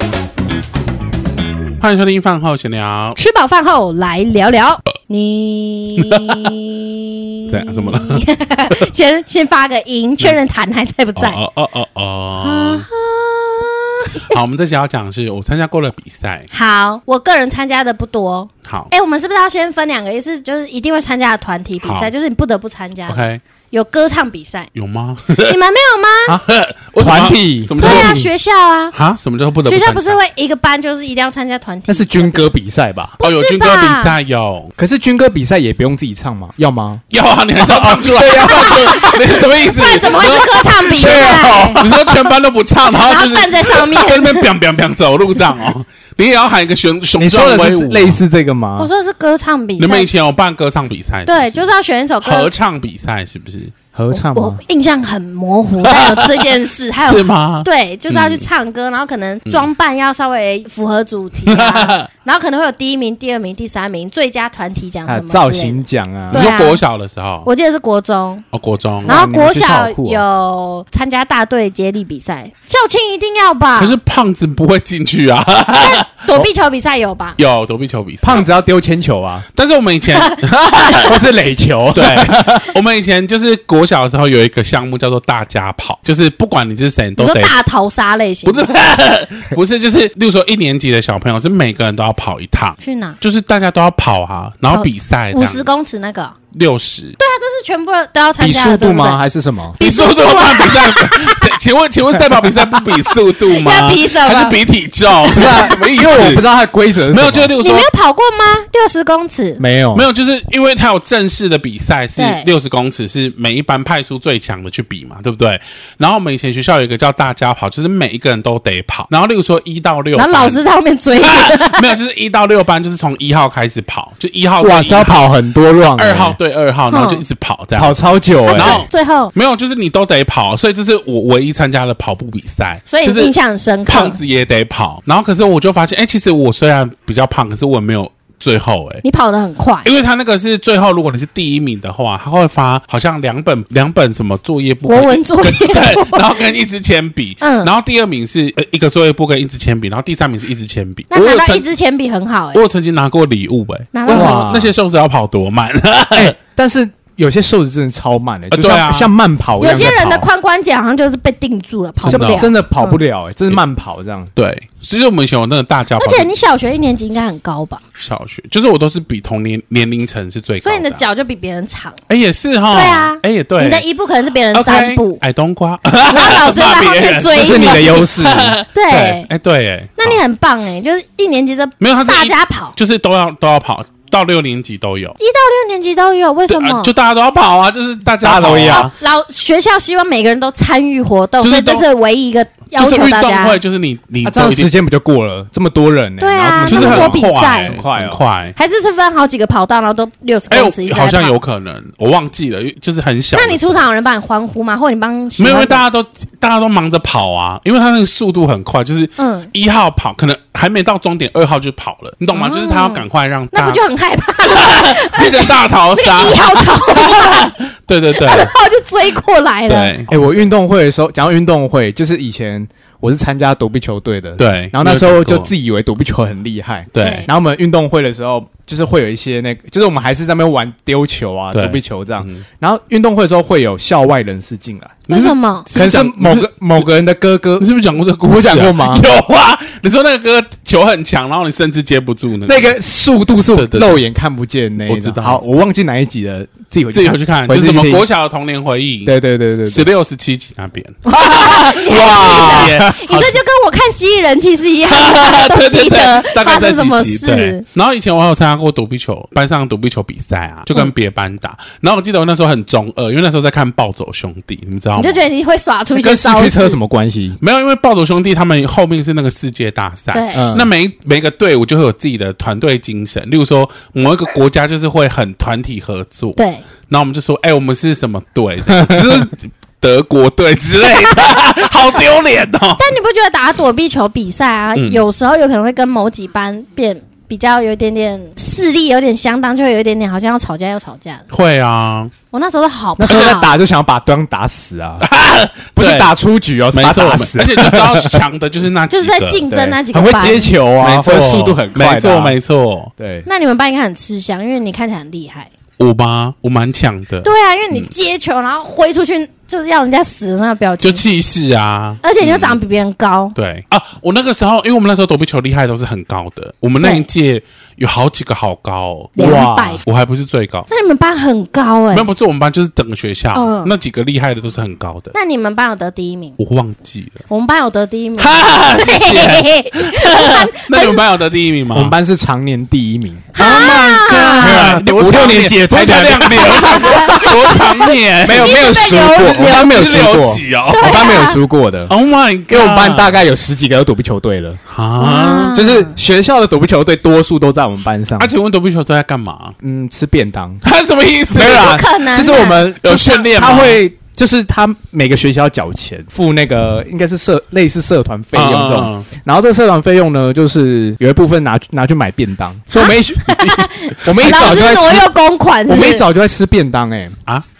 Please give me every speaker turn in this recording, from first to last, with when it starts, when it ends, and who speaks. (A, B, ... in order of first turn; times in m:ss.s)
0:01.8-0:03.2 A
0:03.2-0:11.4 B
0:06.0-0:06.5 A
0:07.5-0:08.8 A
0:11.2-0:12.9 A
0:12.4-0:14.3 B
0:14.1-0:16.5 A
0:16.5-0:24.7 B
0:18.6-0:18.9 A
0:21.8-0:22.1 A
0:23.1-0:23.4 A
0:24.7-0:25.6 A
0:25.3-0:26.4 B
0:26.3-0:28.3 C
0:26.4-0:28.2 A
0:27.8-0:28.9 B
0:28.9-0:30.2 A
0:29.6-0:32.5 B
0:31.9-0:33.2 C
0:33.2-0:34.2 B
0:33.2-0:34.7 A
0:34.8-0:37.0 C
0:37.1-0:48.2 A
0:37.6-0:39.1 C
0:38.3-0:42.1 B
0:40.3-0:42.0 C
0:42.9-0:44.4 B
0:47.2-0:48.9 C
0:48.8-0:50.1 B
0:49.8-0:51.6 A
0:51.2-0:52.5 B
0:52.2-0:53.7 A
0:53.9-0:54.6 C
0:54.1-1:06.8 B
0:55.8-0:58.4 A
1:01.4-1:02.1 A
1:05.0-1:06.5 C
1:06.3-1:07.5 A
1:07.4-1:08.4 B
1:08.5-1:09.2 A
1:09.0-1:10.2 C
1:09.0-1:14.0 B
1:13.8-1:16.0 A
1:15.8-1:17.4 B
1:17.4-1:18.4 A
1:18.2-1:19.4 C
1:19.5-1:21.2 A
1:20.1-1:21.0 B
1:20.9-1:22.7 C
1:21.9-1:27.5 A
1:27.2-1:28.7 B
1:28.4-1:35.7 A
1:32.8-1:33.2 B
1:34.7-1:36.3 B
1:36.5-1:37.2 A
1:37.2-1:39.2 B
1:38.4-1:39.8 C
1:39.8-1:41.6 B
1:39.8-1:46.4 A
1:43.1-1:44.6 B
1:45.3-1:47.5 C
1:47.1-1:47.9 A
1:47.6-1:49.6 B
1:49.6-1:50.1 C
1:49.9-2:00.6 A
1:52.2-1:52.5 B
2:00.1-2:01.9 B
2:01.1-2:05.3 A
2:04.6-2:06.4 C
2:05.9-2:13.3 A
2:06.9-2:07.2 B
2:07.8-2:08.8 C
2:08.5-2:09.3 B
2:12.9-2:14.2 B
2:13.8-2:19.0 A
2:19.0-2:19.9 B
2:19.8-2:31.6 A
2:24.8-2:26.4 B
2:27.4-2:27.7 B
2:31.1-2:32.6 B
2:32.5-2:36.4 A
2:33.9-2:34.4 B
2:34.1-2:34.7 C
2:36.1-2:40.3 C
2:38.5-2:39.1 A
2:39.6-2:43.0 B
2:42.0-2:42.5 A
2:42.1-2:44.3 C
2:44.3-2:46.3 A
2:46.0-2:47.8 B
2:48.0-2:51.0 A
2:50.6-2:52.0 B
2:52.1-2:53.8 A
2:52.7-2:55.2 B
2:54.5-3:00.2 A
2:56.0-2:58.1 B
2:57.3-2:58.6 C
2:58.7-2:59.3 B
3:00.0-3:02.7 B
3:01.8-3:05.2 A
3:05.2-3:06.9 B
3:06.5-3:08.9 A
3:08.2-3:08.9 C
3:08.7-3:13.6 B
3:11.4-3:11.8 A
3:12.7-3:14.7 A
3:14.2-3:18.2 C
3:16.2-3:17.8 B
3:16.6-3:18.5 A
3:18.6-3:21.4 B
3:20.5-3:23.8 A
3:23.3-3:25.8 B
3:25.4-3:33.8 A
3:29.2-3:29.5 B
3:32.3-3:37.6 B
3:34.4-3:38.5 A
3:38.1-3:39.9 B
3:39.7-3:40.1 A
3:40.1-3:55.0 C
3:44.4-3:45.5 A
3:46.9-3:47.3 A
3:47.0-3:47.3 B
3:51.5-3:52.4 A
3:55.1-3:56.9 A
3:55.1-3:55.7 B
3:55.7-3:57.7 C
3:57.6-4:02.8 A
3:58.2-3:59.0 C
4:02.4-4:08.1 C
4:03.5-4:04.0 A
4:04.8-4:05.4 A
4:06.9-4:13.4 A
4:09.0-4:09.9 C
4:11.0-4:17.6 B
4:11.8-4:12.9 C
4:14.9-4:25.2 A
4:25.0-4:26.8 B
4:25.9-4:27.4 C
4:27.4-4:42.8 A
4:30.1-4:30.4 B
4:30.3-4:30.7 C
4:36.4-4:36.6 B
4:38.7-4:39.2 C
4:40.9-4:41.3 B
4:42.8-4:51.3 B
4:44.7-4:45.0 A
4:51.3-4:52.1 A
4:52.3-4:53.5 B
4:53.0-4:55.0 C
4:55.0-4:56.1 A
4:55.7-4:58.2 C
4:56.7-4:59.4 A
4:58.9-5:00.5 B
4:59.5-5:02.4 C
5:00.8-5:02.9 A
5:03.0-5:03.3 C
5:03.2-5:05.5 B
5:05.8-5:07.9 A
5:07.2-5:11.0 B
5:10.8-5:12.6 A
5:12.0-5:13.3 B
5:13.3-5:20.7 A
5:16.8-5:17.1 B
5:19.1-5:19.8 B
5:19.2-5:19.8 C
5:20.7-5:22.1 B
5:21.9-5:25.1 A
5:23.3-5:23.7 B
5:25.1-5:26.4 B
5:26.4-5:27.2 A
5:27.3-5:31.0 B
5:28.2-5:31.9 A
5:31.7-5:37.4 C
5:33.3-5:34.7 B
5:33.4-5:38.6 A
5:36.4-5:40.0 B
5:38.2-5:41.9 C
5:39.2-5:41.0 A
5:40.7-5:41.4 B
5:41.9-5:43.2 A
5:42.5-5:48.3 C
5:44.7-5:45.5 A
5:45.0-5:45.9 B
5:48.2-5:49.6 A
5:49.6-5:50.6 C
5:50.6-5:51.8 A
5:51.3-6:05.1 C
5:51.4-5:52.6 B
5:52.8-5:53.8 A
5:58.3-5:59.1 A
6:02.7-6:06.0 B
6:04.0-6:04.3 A
6:05.7-6:07.2 C